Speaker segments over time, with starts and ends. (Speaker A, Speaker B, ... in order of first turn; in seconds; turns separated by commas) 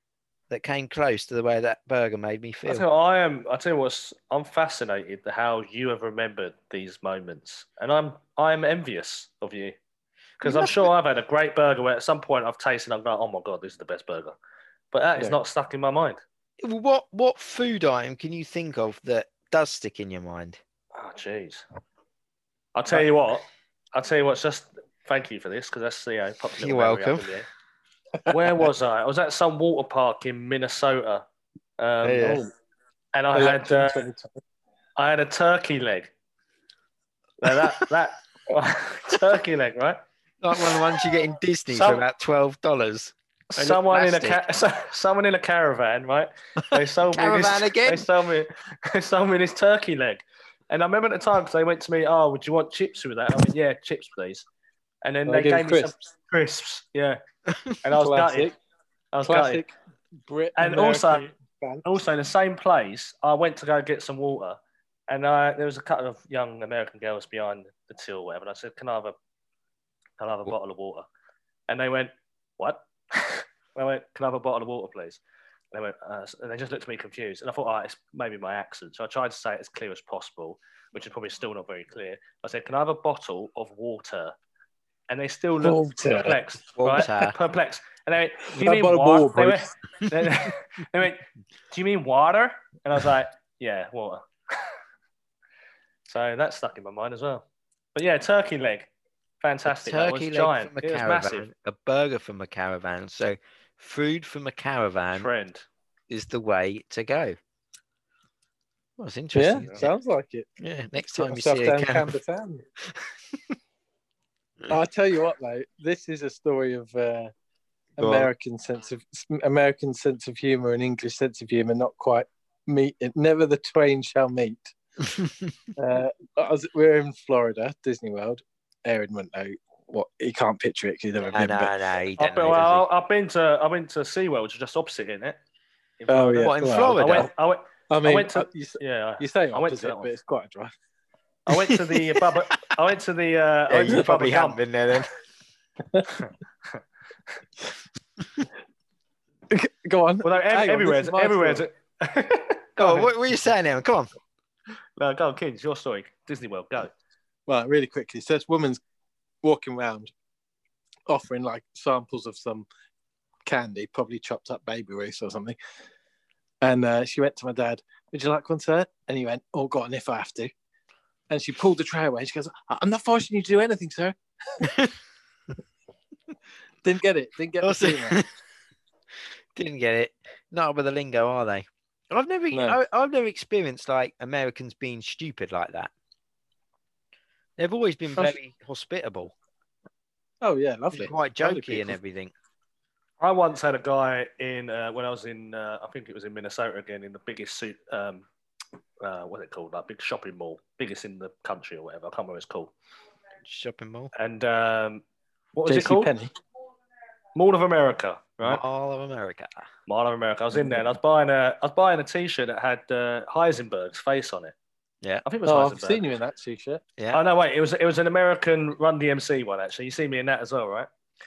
Speaker A: 0.5-2.8, Speaker B: 2.6-9.8, Speaker B: 10.4-14.3, Speaker A: 10.4-10.9, Speaker B: 14.9-16.2, Speaker A: 16.6-20.6, Speaker B: 20.9-21.6, Speaker B: 22.7-27.4, Speaker A: 26.6-27.3, Speaker C: 28.2-28.5, Speaker B: 28.3-31.2, Speaker B: 31.8-32.4, Speaker A: 32.0-32.4, Speaker B: 33.1-34.0, Speaker C: 33.3-34.4, Speaker B: 35.0-36.1, Speaker B: 37.4-40.0, Speaker A: 40.4-44.4, Speaker B: 41.7-42.0, Speaker B: 43.5-54.5, Speaker A: 46.7-48.1, Speaker B: 55.0-57.2, Speaker C: 55.3-55.9, Speaker B: 57.8-58.5, Speaker C: 57.9-58.5, Speaker B: 59.1-59.6, Speaker C: 59.2-59.7, Speaker C: 60.2-61.9, Speaker B: 60.6-61.3, Speaker B: 61.8-69.1, Speaker B: 70.2-71.1, Speaker B: 71.7-75.2, Speaker B: 75.7-84.3, Speaker B: 85.1-94.2, Speaker C: 85.6-86.4, Speaker A: 86.8-87.3, Speaker C: 88.5-89.6, Speaker B: 96.1-98.9, Speaker B: 99.4-101.5, Speaker A: 99.7-105.3, Speaker B: 105.1-105.7, Speaker A: 106.1-107.4, Speaker A: 109.0-109.9, Speaker C: 109.3-110.5, Speaker A: 110.6-112.1, Speaker C: 111.1-112.6, Speaker C: 114.7-117.3, Speaker C: 118.0-124.7, Speaker A: 118.0-118.3, Speaker A: 125.0-125.5, Speaker C: 125.8-131.7, Speaker A: 131.3-132.8, Speaker B: 132.2-135.4, Speaker B: 136.0-140.1, Speaker C: 136.1-137.3, Speaker A: 136.4-137.3, Speaker C: 137.9-140.7, Speaker B: 141.5-144.6, Speaker A: 143.7-145.1, Speaker B: 146.1-146.8, Speaker C: 149.5-151.6, Speaker B: 150.2-153.1, Speaker A: 152.8-154.1, Speaker B: 155.0-156.9, Speaker C: 157.5-158.8, Speaker C: 159.4-160.1, Speaker C: 161.1-162.7, Speaker C: 163.4-165.6, Speaker C: 166.6-170.5, Speaker C: 171.3-174.2, Speaker A: 174.6-174.9, Speaker C: 176.8-178.2, Speaker A: 177.6-178.2, Speaker A: 179.5-185.9, Speaker C: 182.5-182.8, Speaker A: 187.6-189.3, Speaker C: 190.4-192.0, Speaker A: 190.9-192.3, Speaker B: 193.2-198.2, Speaker B: 199.0-202.7, Speaker A: 203.4-204.1, Speaker B: 204.2-206.1, Speaker C: 205.7-206.3, Speaker B: 207.3-208.6, Speaker A: 208.4-209.6, Speaker B: 209.9-214.5, Speaker C: 210.5-210.8, Speaker B: 215.2-216.0, Speaker C: 215.4-216.8, Speaker B: 217.1-220.9